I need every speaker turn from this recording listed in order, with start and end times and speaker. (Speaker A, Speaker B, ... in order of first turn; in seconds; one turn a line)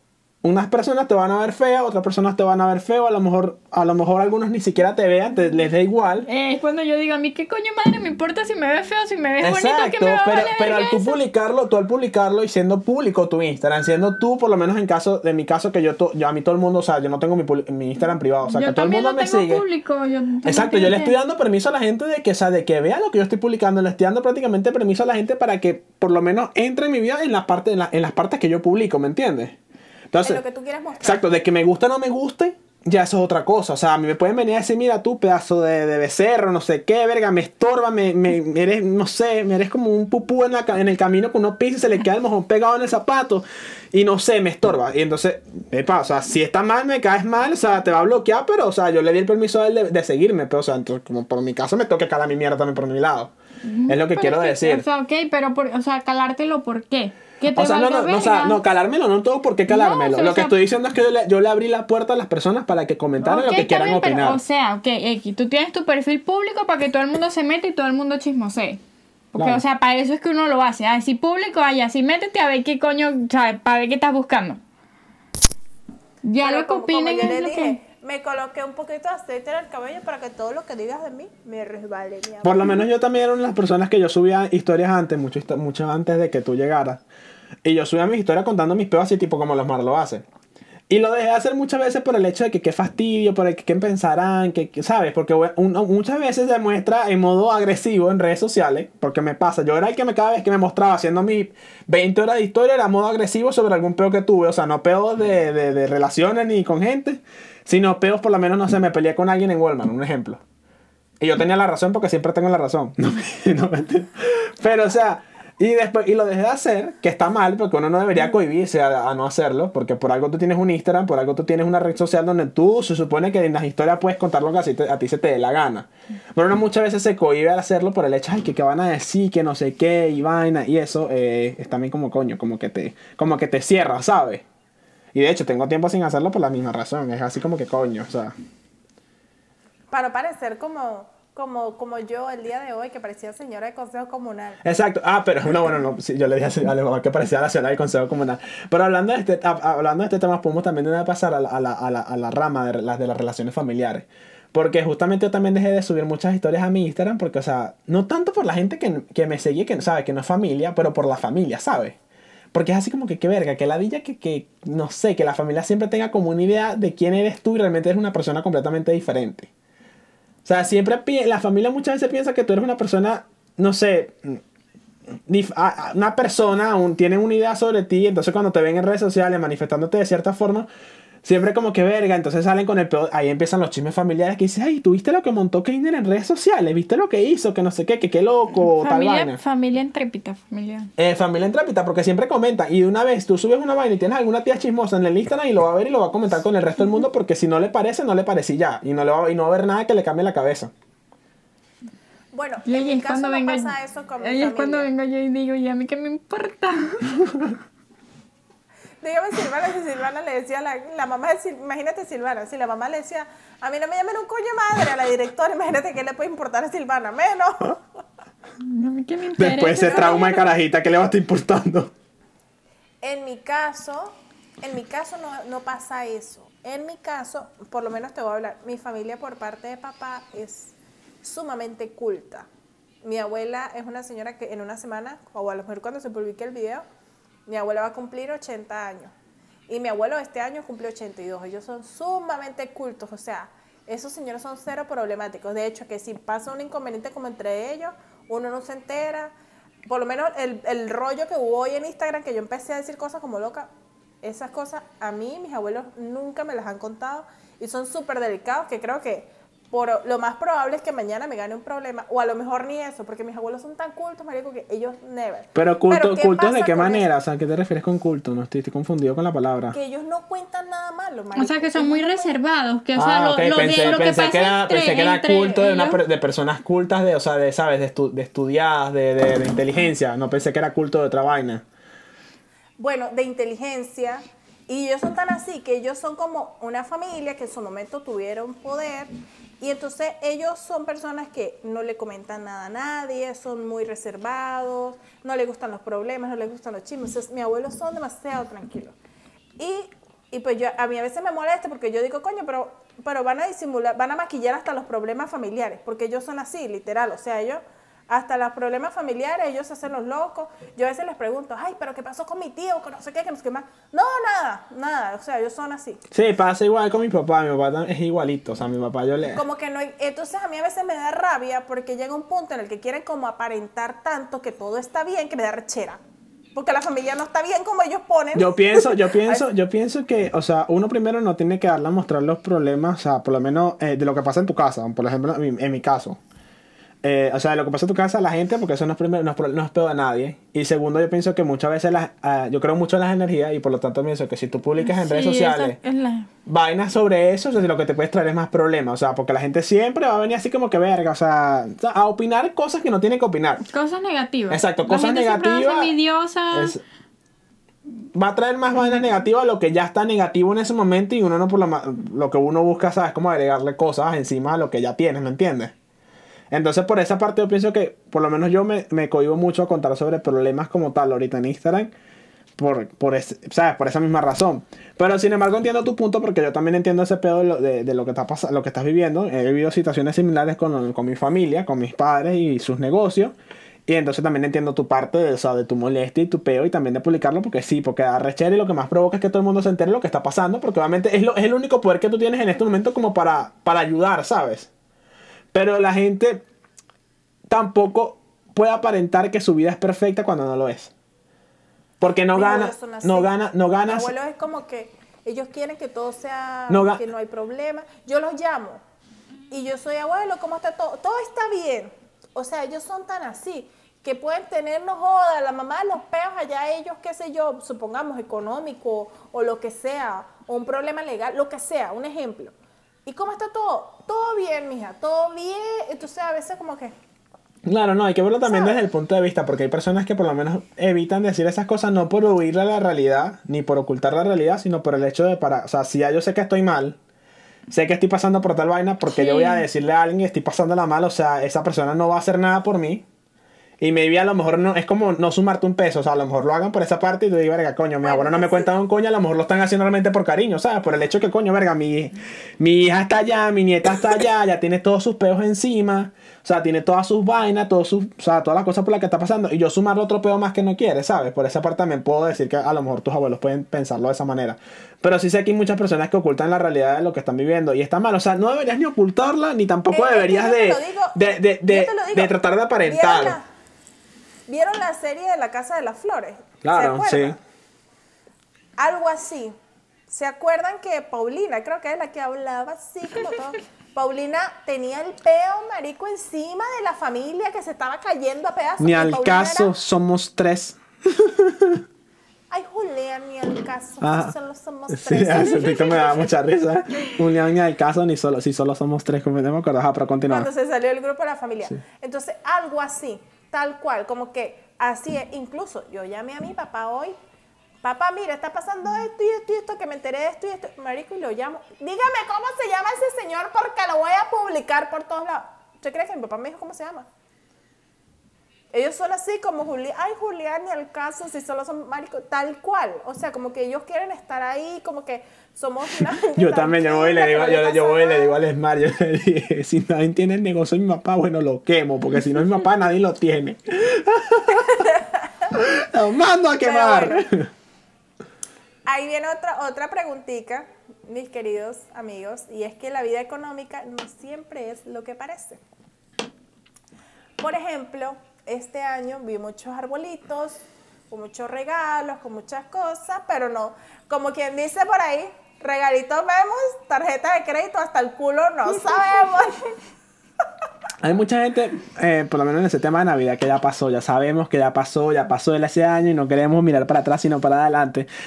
Speaker A: 0.4-6.3
Speaker B: 6.2-11.2
Speaker A: 9.4-19.6
Speaker B: 18.5-21.1
Speaker A: 20.4-29.6
Speaker A: 30.1-30.4
Speaker C: 30.2-31.2
Speaker A: 31.0-53.3
Speaker B: 53.6-58.6
Speaker A: 53.9-54.8
Speaker A: 57.5-64.4
Speaker B: 59.7-60.5
Speaker B: 63.2-68.8
Speaker B: 69.3-74.6
Speaker A: 69.3-69.6
Speaker B: 76.2-77.8
Speaker C: 76.4-82.8
Speaker A: 82.4-87.0
Speaker A: 87.6-90.2
Speaker A: 90.9-110.4
Speaker A: 111.2-134.4
Speaker A: 135.1-138.3
Speaker C: 139.9-144.6
Speaker A: 144.6-161.9
Speaker A: 162.5-169.5
Speaker A: 170.4-174.4
Speaker A: 175.3-180.7
Speaker A: 181.2-189.4
Speaker B: 188.7-190.9
Speaker A: 191.0-200.7
Speaker C: 202.3-204.9
Speaker B: 202.7-207.2
Speaker C: 209.0-217.8
Speaker B: 218.6-220.3
Speaker A: 219.4-221.9
Speaker C: 219.8-220.4
Speaker C: 223.0-232.5
Speaker C: 233.0-236.8
Speaker C: 237.5-239.1
Speaker C: 239.7-249.3
Speaker C: 249.9-253.7
Speaker C: 254.2-267.1
Speaker A: 265.5-269.8
Speaker C: 269.7-272.4
Speaker B: 271.4-276.0
Speaker A: 272.9-281.6
Speaker C: 282.8-298.9
Speaker C: 299.6-316.0
Speaker A: 316.1-319.4
Speaker C: 319.4-326.0
Speaker C: 326.5-329.4
Speaker A: 328.4-336.2
Speaker A: 337.0-345.8
Speaker B: 344.8-346.3
Speaker A: 346.4-353.6
Speaker B: 353.7-356.8
Speaker A: 354.5-355.9
Speaker A: 356.5-356.8
Speaker A: 358.1-365.7
Speaker A: 366.5-371.9
Speaker A: 372.6-383.4
Speaker A: 383.9-394.7
Speaker A: 395.5-396.4
Speaker A: 397.5-400.9
Speaker A: 402.0-404.1
Speaker C: 402.3-403.3
Speaker C: 403.9-408.8
Speaker A: 406.7-407.0
Speaker C: 409.5-422.5
Speaker C: 423.1-426.9
Speaker A: 427.6-437.0
Speaker C: 428.4-428.8
Speaker A: 437.7-443.0
Speaker B: 439.1-439.6
Speaker A: 443.8-473.4
Speaker C: 448.0-448.7
Speaker C: 469.9-472.3
Speaker C: 472.9-473.4
Speaker C: 474.5-477.4
Speaker A: 476.6-477.4
Speaker C: 478.8-479.5
Speaker C: 480.1-489.7
Speaker A: 488.8-491.8
Speaker C: 492.5-496.3
Speaker A: 494.0-494.3
Speaker A: 494.9-500.5
Speaker C: 500.3-507.1
Speaker C: 507.8-517.1
Speaker C: 518.7-528.4
Speaker A: 526.0-534.9
Speaker C: 534.5-535.5
Speaker A: 535.5-537.5
Speaker C: 536.6-537.2
Speaker C: 538.9-545.6
Speaker C: 547.4-559.6
Speaker A: 561.0-568.1